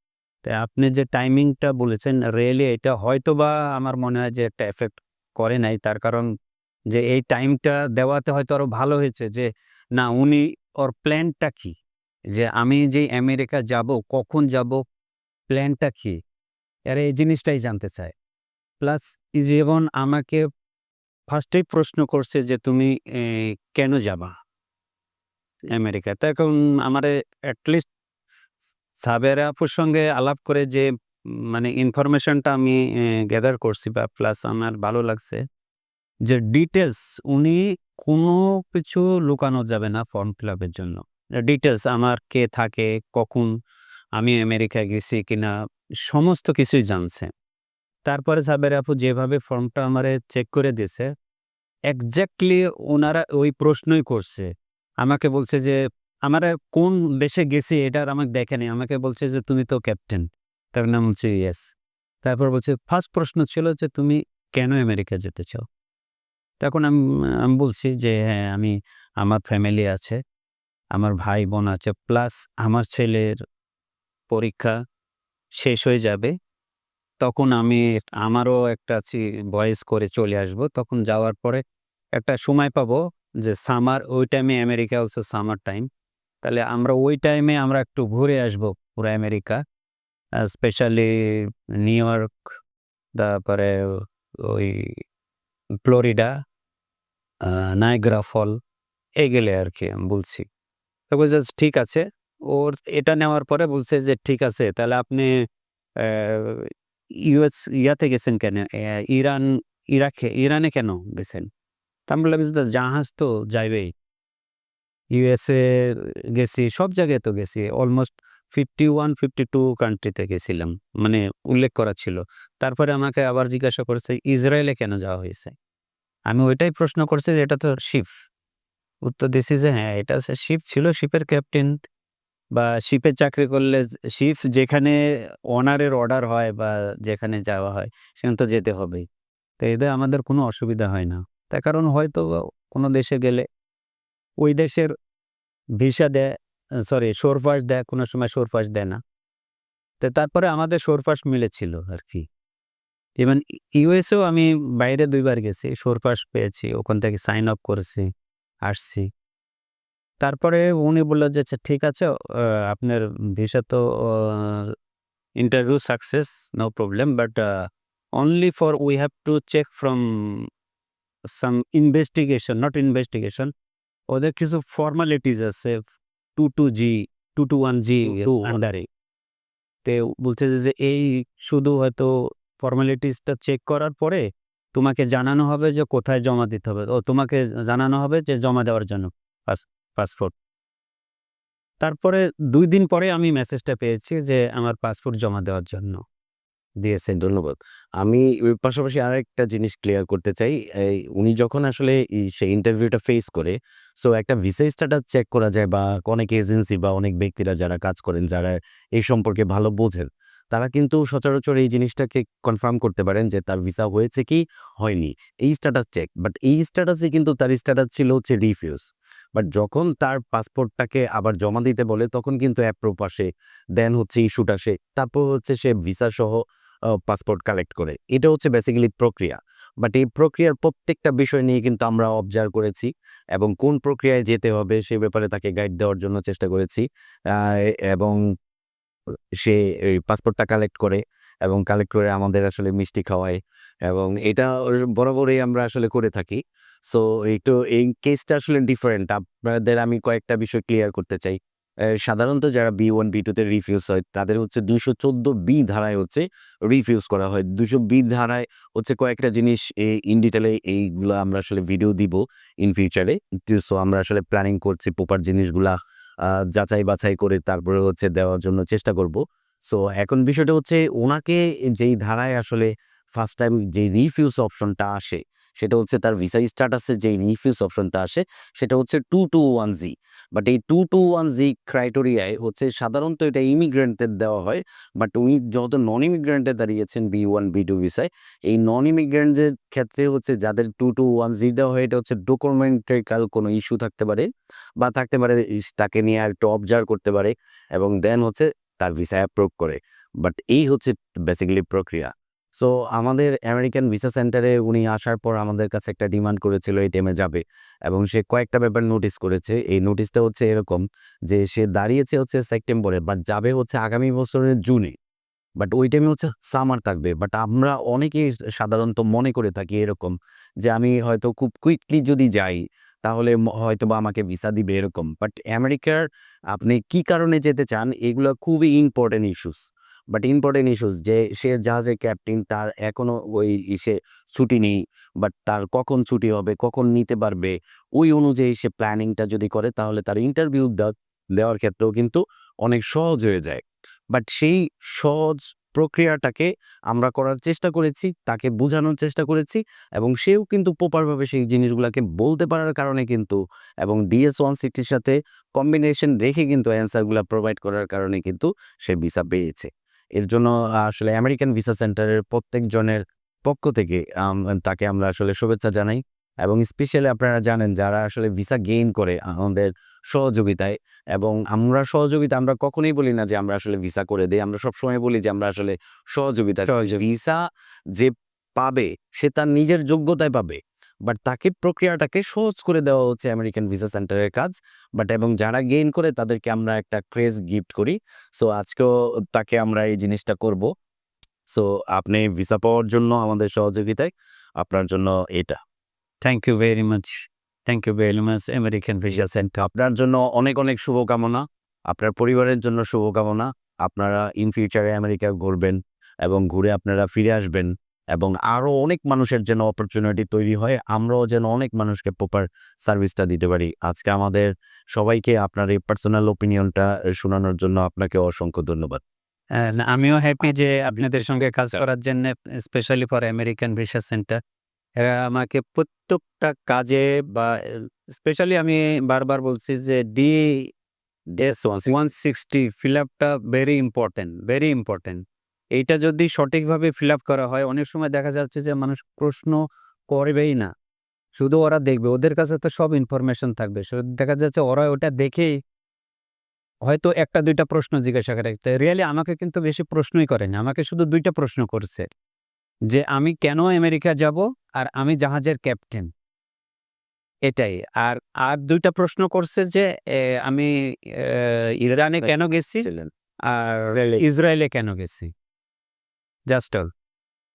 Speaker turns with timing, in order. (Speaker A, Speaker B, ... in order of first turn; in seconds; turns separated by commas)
Speaker A: 0.4-6.3, Speaker A: 6.9-11.8, Speaker A: 12.3-14.8, Speaker A: 15.5-16.2, Speaker A: 16.9-18.1, Speaker A: 18.8-20.4, Speaker A: 21.3-24.3, Speaker A: 25.7-27.9, Speaker A: 28.7-35.4, Speaker A: 36.3-43.5, Speaker A: 44.2-45.5, Speaker A: 46.1-47.3, Speaker A: 48.0-51.1, Speaker A: 51.9-54.5, Speaker A: 55.0-65.6, Speaker A: 66.6-70.2, Speaker A: 70.9-73.4, Speaker A: 74.3-74.7, Speaker A: 75.6-76.3, Speaker A: 77.2-81.6, Speaker A: 82.1-85.9, Speaker A: 86.4-89.6, Speaker A: 90.4-92.5, Speaker A: 93.1-95.0, Speaker A: 95.8-96.3, Speaker A: 97.4-98.6, Speaker A: 99.2-100.5, Speaker A: 101.1-105.3, Speaker A: 106.0-106.7, Speaker A: 107.2-111.5, Speaker A: 112.1-113.9, Speaker A: 115.1-125.5, Speaker A: 126.3-128.1, Speaker A: 129.0-131.8, Speaker A: 132.5-139.1, Speaker A: 139.6-143.4, Speaker A: 144.4-144.9, Speaker A: 145.8-146.3, Speaker A: 146.9-149.0, Speaker A: 150.0-152.3, Speaker A: 153.2-158.1, Speaker A: 158.6-159.1, Speaker A: 160.2-164.7, Speaker A: 165.4-167.7, Speaker A: 168.2-170.5, Speaker A: 171.3-173.5, Speaker A: 174.1-178.8, Speaker B: 178.0-178.6, Speaker A: 179.8-190.3, Speaker A: 191.8-196.0, Speaker A: 196.8-197.2, Speaker B: 197.2-218.8, Speaker B: 219.3-226.4, Speaker B: 227.1-238.2, Speaker B: 239.4-251.4, Speaker B: 251.9-265.7, Speaker B: 266.3-294.3, Speaker B: 294.8-314.9, Speaker B: 315.6-329.6, Speaker B: 330.1-343.6, Speaker B: 344.1-377.4, Speaker A: 376.7-377.0, Speaker B: 377.9-390.7, Speaker B: 391.5-395.6, Speaker A: 396.2-399.6, Speaker B: 399.1-419.0, Speaker A: 419.6-424.4, Speaker B: 420.9-421.8, Speaker A: 425.0-430.7, Speaker B: 431.3-432.1, Speaker A: 431.9-435.2, Speaker A: 435.8-440.7, Speaker A: 441.3-445.6, Speaker A: 446.8-452.1, Speaker A: 452.9-456.1, Speaker A: 457.4-462.9, Speaker B: 462.8-463.1, Speaker A: 463.5-465.3, Speaker B: 463.8-464.2, Speaker A: 466.5-466.9